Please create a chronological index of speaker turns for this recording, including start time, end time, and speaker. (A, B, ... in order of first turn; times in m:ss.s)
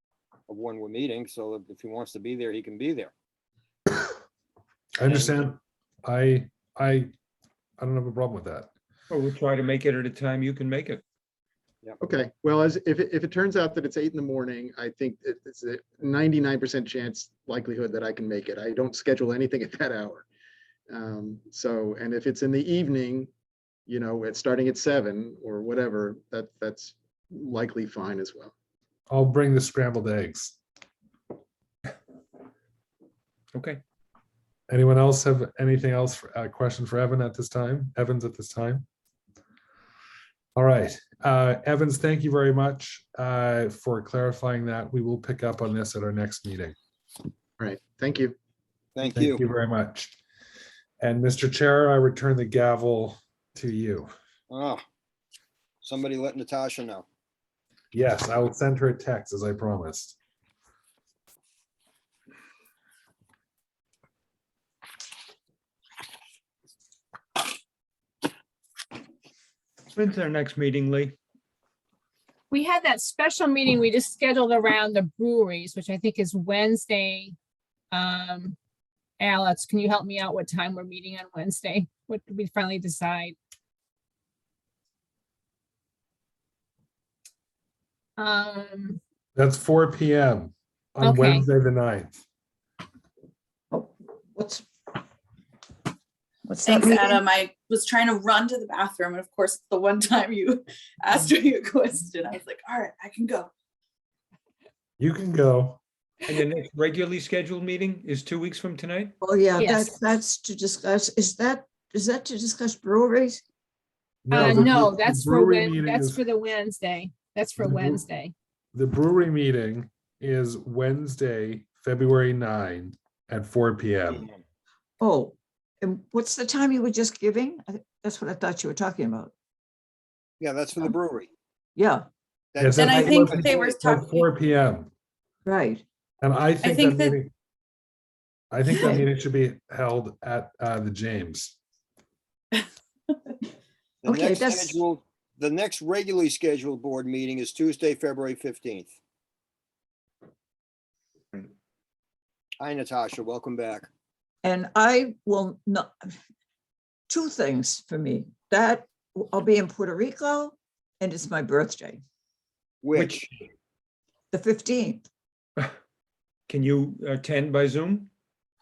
0:00.5-0:03.1 A
0:05.0-0:07.1 B
0:07.8-0:08.7 B
0:09.1-0:11.0 C
0:12.0-0:20.3 D
0:20.9-0:23.3 D
0:23.9-0:28.5 D
0:29.1-0:30.6 B
0:33.5-0:33.8 C
0:34.7-0:38.9 B
0:40.6-0:46.8 B
0:47.6-0:48.4 D
0:49.0-0:49.4 A
0:49.0-0:50.2 B
0:51.0-0:54.1 B
0:54.5-0:54.8 A
0:55.8-0:57.1 A
0:57.9-1:00.2 B
1:10.0-1:11.2 C
1:12.5-1:17.4 E
1:17.9-1:18.6 E
1:19.2-1:23.4 E
1:28.2-1:29.0 E
1:29.4-1:32.2 B
1:31.0-1:31.5 E
1:33.7-1:34.7 F
1:36.4-1:37.2 F
1:36.7-1:43.5 G
1:45.0-1:45.8 B
1:46.3-1:49.1 C
1:49.2-1:53.4 F
1:49.6-1:49.9 E
1:54.3-1:56.2 B
1:54.3-1:58.3 E
1:54.4-1:54.8 F
1:57.6-1:58.0 B
1:58.7-2:04.3 B
2:05.0-2:09.3 F
2:10.4-2:11.3 A
2:11.8-2:12.1 F
2:12.5-2:13.7 A
2:12.6-2:14.9 B
2:12.8-2:14.3 G
2:15.5-2:15.8 F
2:16.2-2:17.3 B
2:16.6-2:17.2 G
2:18.5-2:21.6 B
2:18.7-2:19.0 F
2:24.0-2:29.0 A
2:24.1-2:24.8 F
2:32.6-2:33.9 A
2:34.4-2:36.1 F
2:37.1-2:42.0 F
2:42.8-2:43.3 A
2:42.9-2:43.3 C
2:44.3-2:45.1 F
2:46.5-2:48.1 C